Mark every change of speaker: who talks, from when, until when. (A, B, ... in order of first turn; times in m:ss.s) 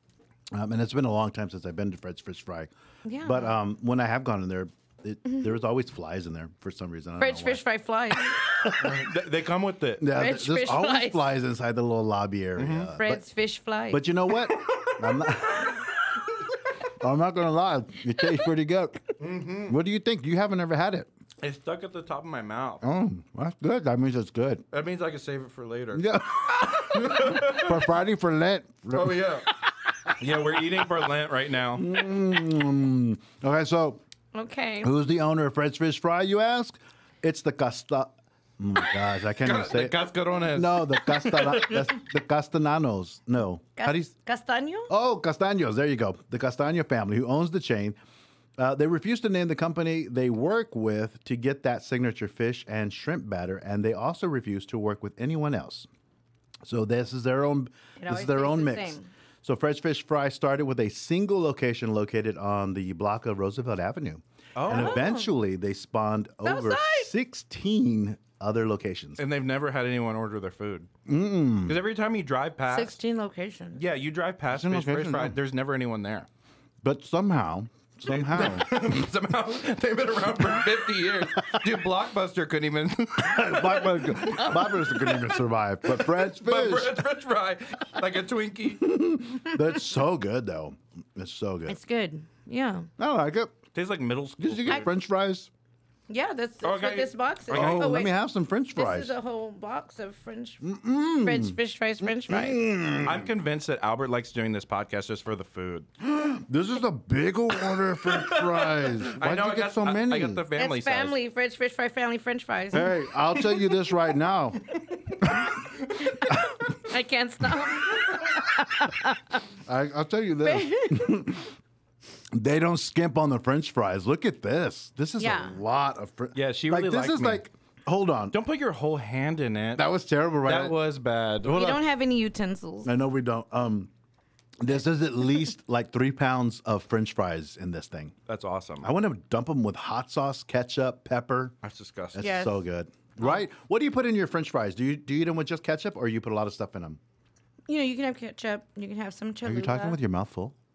0:00.5-0:07.6 A
0:03.0-0:03.5 B
0:07.2-0:08.4 B
0:08.3-0:09.1 A
0:08.7-0:10.0 C
0:10.0-0:13.2 A
0:10.1-0:11.3 B
0:12.6-0:12.9 C
0:13.0-0:14.0 B
0:13.9-0:21.1 A
0:14.5-0:15.0 C
0:19.2-0:19.8 C
0:21.4-0:22.8 C
0:22.8-0:24.6 A
0:24.7-0:27.8 C
0:25.9-0:29.2 A
0:28.9-0:29.5 C
0:30.1-0:32.0 C
0:30.8-0:31.1 A
0:31.8-0:34.0 A
0:34.3-0:34.9 B
0:34.8-0:40.0 A
0:39.4-0:41.9 C
0:40.5-0:44.1 A
0:43.8-0:44.9 B
0:44.9-0:48.0 A
0:48.6-0:55.9 A
0:56.6-1:09.2 A
0:58.0-0:59.1 B
1:04.6-1:05.0 C
1:04.7-1:05.3 B
1:06.4-1:07.1 B
1:09.2-1:10.9 C
1:11.0-1:11.8 A
1:11.6-1:13.0 C
1:12.7-1:13.8 B
1:13.7-1:16.3 C
1:14.5-1:15.4 A
1:16.8-1:19.1 A
1:18.1-1:25.3 C
1:21.4-1:21.7 A
1:23.2-1:27.0 A
1:24.2-1:24.9 B
1:25.8-1:28.8 C
1:28.8-1:31.8 A
1:31.7-1:32.9 B
1:33.0-1:33.6 A
1:33.7-1:34.9 C
1:34.4-1:35.5 A
1:36.1-1:38.1 B
1:36.6-1:38.0 C
1:37.5-1:39.1 A
1:38.7-1:42.6 B
1:40.6-1:43.3 A
1:43.0-1:45.9 C
1:46.0-1:50.4 A
1:47.7-1:51.1 C
1:50.6-1:53.5 B
1:52.7-1:55.5 A
1:55.9-1:56.1 C
1:56.0-1:59.4 B
1:59.6-2:01.5 A
2:00.4-2:01.3 B
2:02.3-2:08.4 A
2:05.2-2:05.6 B
2:06.3-2:07.4 C
2:08.3-2:09.8 C
2:09.8-2:10.7 A
2:10.4-2:11.7 C
2:11.4-2:12.9 B
2:11.4-2:11.8 A
2:12.8-2:13.9 A
2:14.6-2:18.1 A
2:18.3-2:18.9 C
2:18.8-2:21.5 A
2:21.6-2:22.4 C
2:22.1-2:27.0 A
2:22.2-2:22.5 B
2:27.7-2:30.0 B
2:29.4-2:30.5 A